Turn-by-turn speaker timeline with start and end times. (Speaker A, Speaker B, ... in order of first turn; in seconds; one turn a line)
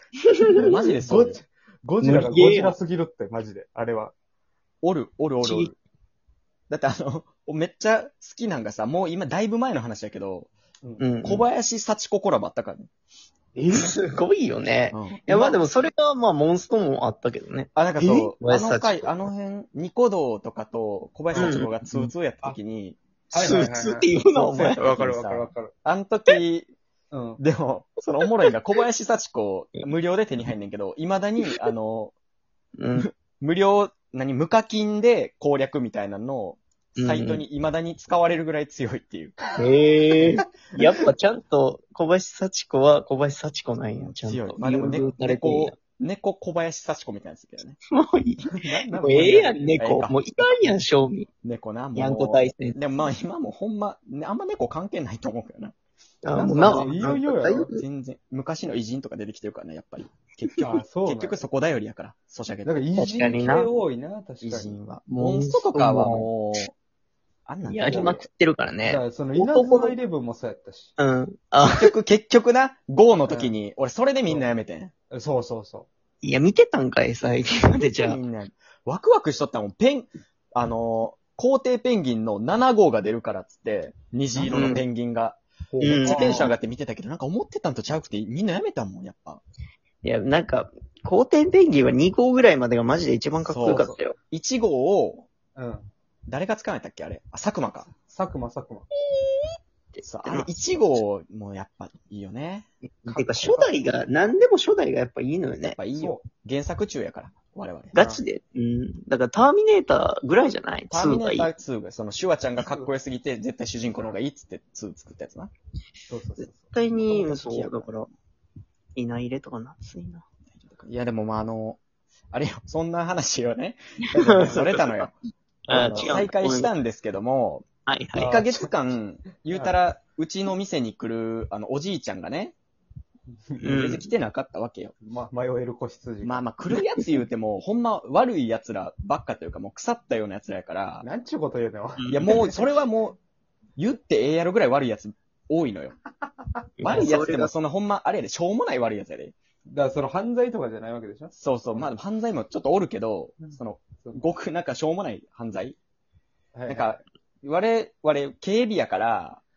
Speaker A: 0.2-0.7
Speaker B: 0.5-1.4
Speaker C: 0.5-4.1
Speaker A: 2.0-2.8
Speaker B: 4.8-5.8
Speaker A: 5.4-5.7
Speaker B: 6.7-10.5
Speaker A: 11.0-11.5
Speaker B: 11.2-12.9
Speaker A: 13.6-19.3
Speaker B: 14.9-15.6
Speaker B: 17.8-23.0
Speaker A: 21.4-22.1
Speaker C: 23.3-24.1
Speaker A: 23.3-24.8
Speaker B: 24.4-26.7
Speaker C: 24.8-25.7
Speaker C: 27.1-27.4
Speaker B: 27.4-32.1
Speaker A: 32.8-33.1
Speaker B: 33.0-39.4
Speaker A: 37.0-37.4
Speaker A: 39.6-45.8
Speaker B: 44.2-47.8
Speaker A: 47.9-51.3
Speaker C: 48.9-49.4
Speaker B: 49.1-50.3
Speaker B: 51.4-55.8
Speaker A: 51.9-52.8
Speaker A: 56.2-57.8
Speaker B: 56.3-62.8
Speaker C: 56.6-57.7
Speaker C: 60.6-61.4
Speaker C: 62.6-64.8
Speaker A: 63.0-63.7
Speaker B: 64.4-66.7
Speaker A: 65.1-66.3
Speaker B: 67.5-68.2
Speaker A: 67.6-70.0
Speaker C: 68.8-70.9
Speaker A: 71.0-71.9
Speaker B: 71.6-74.9
Speaker C: 73.3-73.5
Speaker C: 75.1-75.9
Speaker A: 76.2-78.2
Speaker B: 77.9-89.4
Speaker A: 84.5-84.8
Speaker A: 85.8-86.5
Speaker C: 85.9-86.4
Speaker A: 90.0-94.2
Speaker B: 93.4-95.3
Speaker B: 96.3-97.9
Speaker C: 98.1-98.8
Speaker A: 99.1-99.4
Speaker A: 99.9-100.5
Speaker B: 100.0-102.7
Speaker A: 103.0-105.8
Speaker C: 103.1-103.8
Speaker B: 105.6-108.0
Speaker C: 105.9-106.2
Speaker A: 107.9-111.5
Speaker C: 108.0-108.2
Speaker B: 110.9-115.5
Speaker C: 116.2-116.6
Speaker A: 116.4-118.1
Speaker B: 117.0-118.0
Speaker A: 119.0-120.2
Speaker B: 120.5-121.8
Speaker B: 122.3-125.1
Speaker A: 124.1-125.1
Speaker A: 125.7-126.7
Speaker B: 125.7-132.6
Speaker A: 127.9-128.6
Speaker A: 133.6-134.1
Speaker B: 133.6-134.9
Speaker C: 135.1-136.4
Speaker B: 136.2-141.1
Speaker A: 136.7-137.2
Speaker C: 141.0-141.9
Speaker A: 142.0-142.5
Speaker B: 142.1-143.2
Speaker B: 143.8-145.9
Speaker A: 146.8-147.5
Speaker B: 146.8-149.3
Speaker C: 149.9-151.9
Speaker B: 151.4-155.8
Speaker C: 156.6-157.0
Speaker B: 156.7-159.4